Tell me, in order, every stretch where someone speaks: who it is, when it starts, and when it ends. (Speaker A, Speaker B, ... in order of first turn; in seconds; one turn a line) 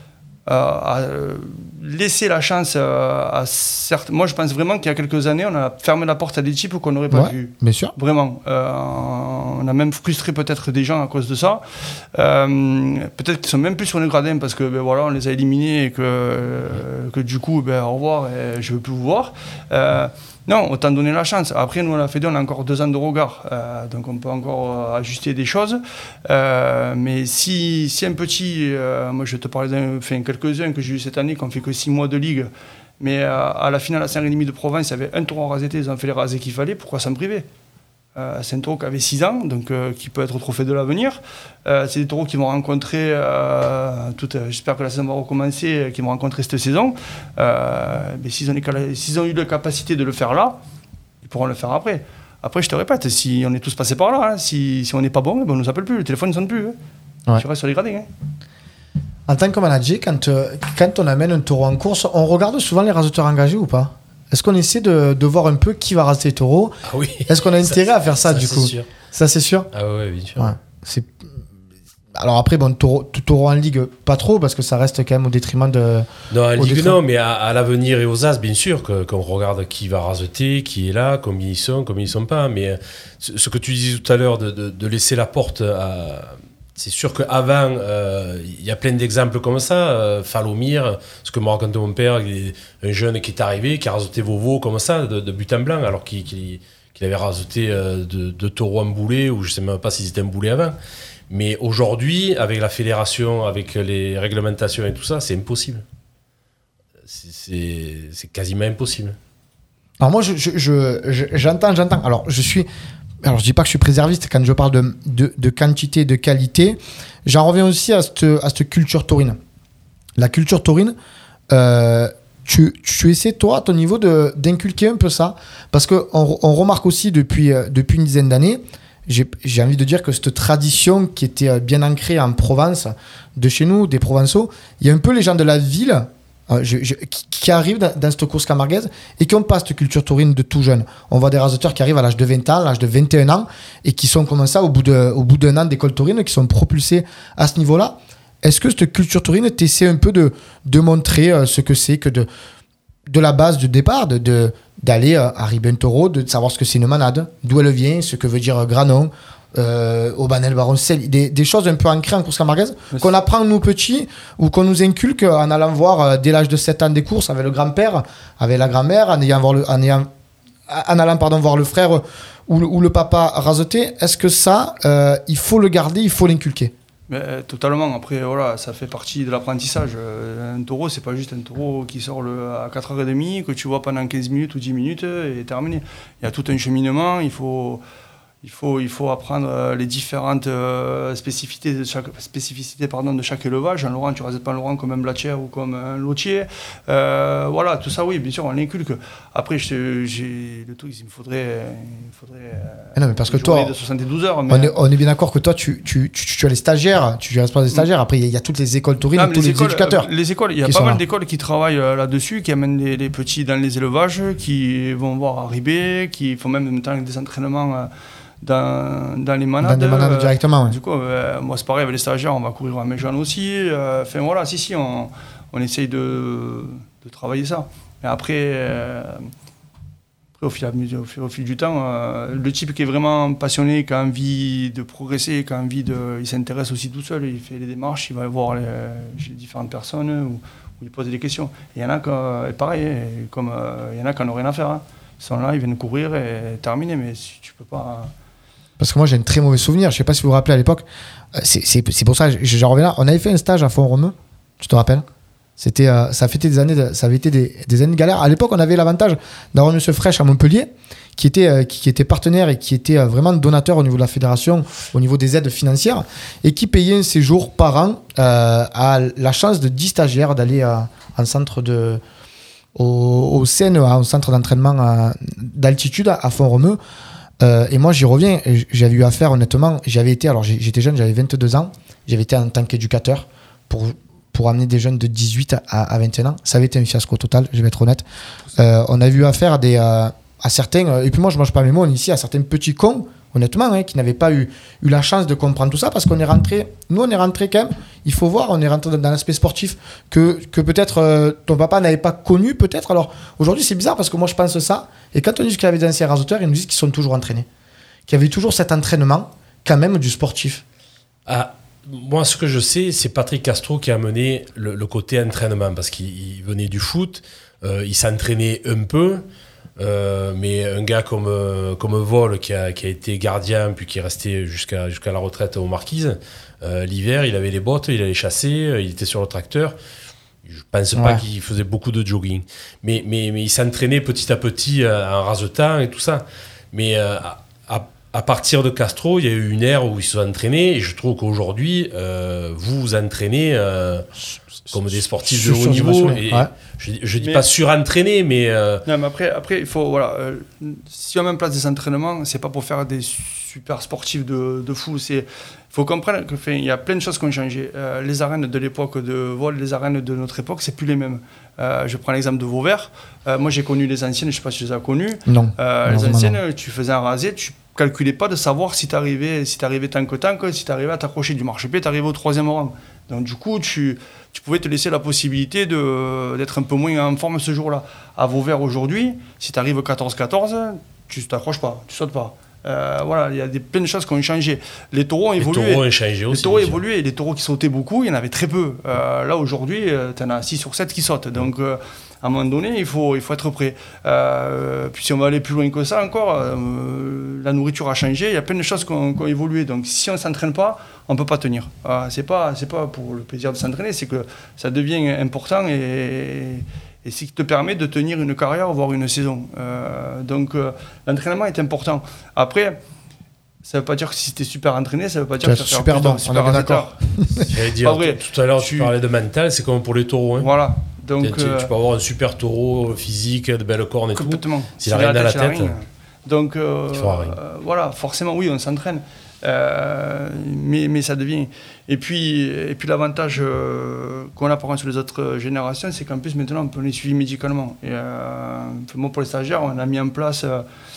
Speaker A: 0.5-32.5
Speaker B: 7.1-7.9
Speaker A: 33.0-37.5
Speaker A: 38.2-50.6
Speaker A: 51.2-56.8
Speaker A: 57.4-58.1
Speaker B: 59.3-69.7
Speaker C: 66.9-68.9
Speaker C: 69.7-70.6
Speaker B: 70.4-71.3
Speaker B: 72.2-77.0
Speaker C: 76.3-100.8
Speaker C: 101.3-105.8
Speaker C: 107.1-109.2
Speaker B: 110.0-112.7
Speaker B: 113.2-119.4
Speaker B: 120.2-121.0
Speaker B: 121.5-152.3
Speaker B: 153.1-170.1
Speaker B: 170.7-176.7
Speaker A: 177.1-187.8
Speaker A: 188.4-204.8
Speaker B: 203.0-203.7
Speaker B: 204.5-210.1
Speaker A: 209.2-217.9
Speaker B: 210.6-211.0
Speaker A: 218.4-229.3
Speaker B: 219.6-220.8
Speaker A: 230.4-248.1
Speaker B: 248.8-255.1
Speaker B: 255.6-272.0
Speaker B: 272.8-276.8
Speaker B: 277.4-288.1
Speaker B: 288.6-307.5
Speaker B: 308.1-310.6
Speaker C: 311.3-319.2
Speaker C: 319.8-329.8
Speaker C: 330.5-344.1
Speaker B: 330.9-331.2
Speaker C: 344.7-348.8
Speaker B: 345.3-346.5
Speaker A: 347.2-347.4
Speaker A: 348.9-412.8
Speaker B: 365.3-366.4
Speaker C: 385.4-386.8
Speaker A: 413.6-417.0
Speaker B: 415.4-417.5
Speaker C: 417.5-420.5
Speaker A: 417.8-418.9
Speaker A: 420.4-421.7
Speaker C: 421.2-425.8
Speaker A: 424.1-440.6
Speaker C: 426.9-427.4